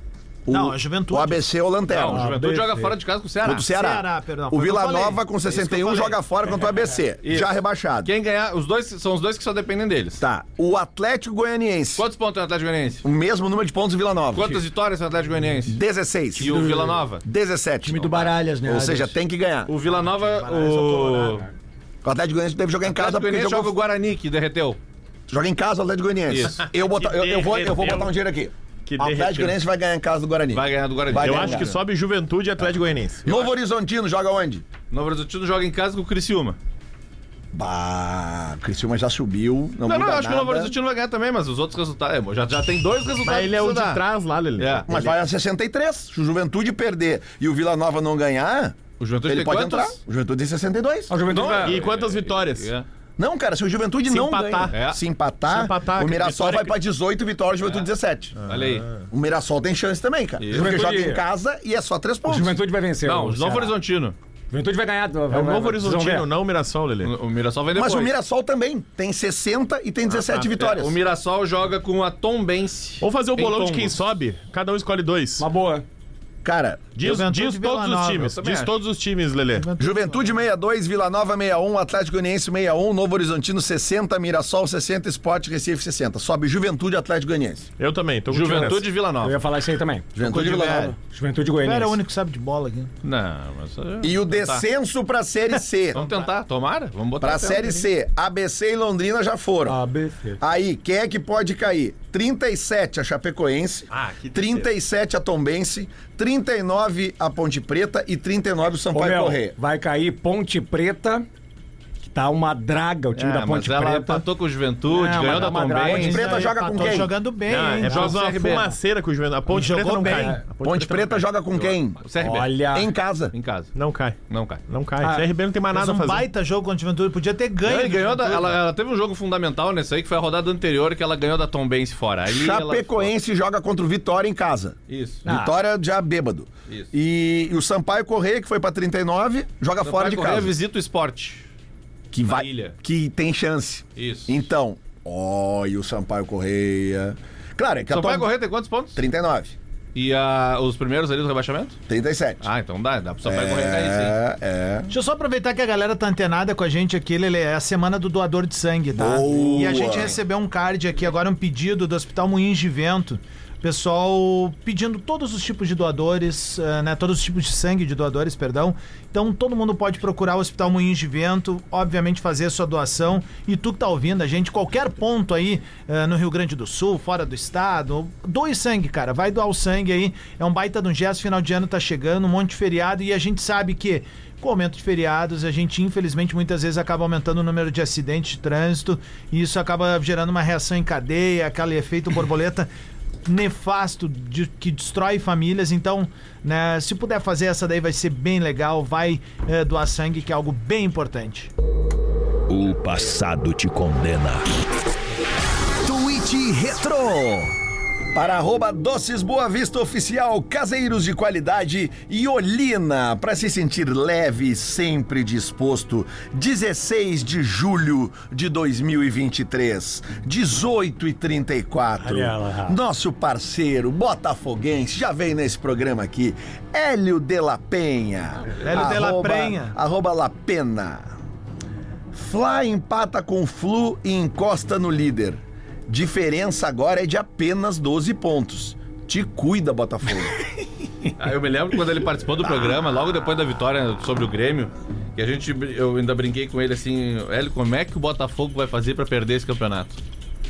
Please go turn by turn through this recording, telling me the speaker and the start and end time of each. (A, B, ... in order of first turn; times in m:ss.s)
0:00.4-0:02.3 A
0:00.5-0:01.4 B
0:01.9-0:03.7 C
0:02.1-0:02.9 D
0:03.4-0:08.1 A
0:03.7-0:06.1 B
0:07.2-0:07.5 C
0:08.0-0:10.2 C
0:10.2-0:12.0 A
0:12.0-0:13.0 C
0:13.0-0:14.6 A
0:14.3-0:15.8 C
0:15.7-0:16.7 A
0:16.4-0:17.2 C
0:16.4-0:17.0 D
0:17.2-0:19.7 A
0:17.8-0:19.1 D
0:19.7-0:21.4 C
0:20.4-0:21.4 B
0:22.0-0:23.7 A
0:22.8-0:24.8 C
0:25.3-0:31.7 A
0:26.3-0:26.6 C
0:26.7-0:28.1 E
0:28.8-0:29.6 E
0:30.5-0:31.7 C
0:31.1-0:33.2 E
0:33.2-0:34.6 A
0:33.3-0:33.5 C
0:34.9-0:36.6 C
0:37.5-0:40.7 A
0:39.8-0:44.0 C
0:43.2-0:44.9 E
0:44.6-0:44.9 C
0:44.9-0:51.1 A
0:49.0-0:50.0 C
0:51.1-0:51.8 D
0:51.3-0:52.8 C
0:51.5-0:52.7 E
0:53.2-0:58.4 A
0:54.1-0:54.8 E
0:54.7-0:55.0 C
0:55.5-0:56.7 E
0:58.4-0:58.9 C
0:59.1-1:02.6 A
1:00.4-1:00.8 C
1:00.5-1:01.2 D
1:02.2-1:03.7 D
1:03.0-1:04.2 C
1:04.5-1:06.3 D
1:05.3-1:07.1 E
1:07.0-1:08.1 C
1:07.7-1:11.0 A
1:10.1-1:14.0 C
1:13.0-1:15.4 E
1:15.4-1:15.8 D
1:16.4-1:16.9 A
1:17.0-1:19.7 E
1:17.0-1:18.3 B
1:18.3-1:18.7 C
1:19.5-1:20.3 B
1:19.8-1:27.7 A
1:27.8-1:28.9 E
1:28.3-1:29.4 C
1:29.2-1:30.1 D
1:30.1-1:30.9 A
1:30.2-1:31.0 B
1:31.1-1:32.0 D
1:31.6-1:32.9 B
1:33.0-1:34.6 C
1:34.0-1:36.0 A
1:35.9-1:37.8 C
1:37.2-1:39.8 A
1:39.6-1:40.4 D
1:40.4-1:49.6 A
1:43.9-1:44.7 E
1:48.9-1:51.2 D
1:52.0-1:54.2 D
1:53.1-1:56.3 C
1:54.9-1:58.1 B
1:55.0-1:56.1 D
1:55.8-1:57.1 A
1:57.4-2:01.3 E
1:57.8-1:58.7 C
1:59.5-2:00.4 B
2:00.0-2:00.4 D
2:00.6-2:02.0 A
2:01.5-2:02.6 C
2:02.2-2:02.9 D
2:02.7-2:03.3 A
2:03.3-2:03.7 C
2:03.7-2:04.2 E
2:04.3-2:04.6 C
2:04.7-2:06.3 E
2:05.0-2:05.3 D
2:05.7-2:08.6 B
2:07.6-2:13.1 C
2:12.2-2:20.5 A
2:14.9-2:15.2 C
2:15.2-2:15.5 D
2:19.8-2:21.4 C
2:22.1-2:28.3 A
2:22.2-2:22.7 C
2:24.0-2:24.4 C
2:27.9-2:29.0 C
2:28.9-2:29.6 A
2:29.9-2:31.8 C
2:31.9-2:32.4 A
2:32.4-2:34.2 C
2:33.2-2:34.9 A
2:34.9-3:12.7 B
2:38.9-2:40.1 A
2:39.7-2:40.1 C
3:13.2-3:21.5 B
3:22.5-3:24.5 A
3:25.8-3:27.5 A
3:28.1-3:51.1 A
3:42.0-3:42.8 D
3:48.6-3:49.8 B
3:52.1-4:00.4 A
4:01.2-4:10.0 C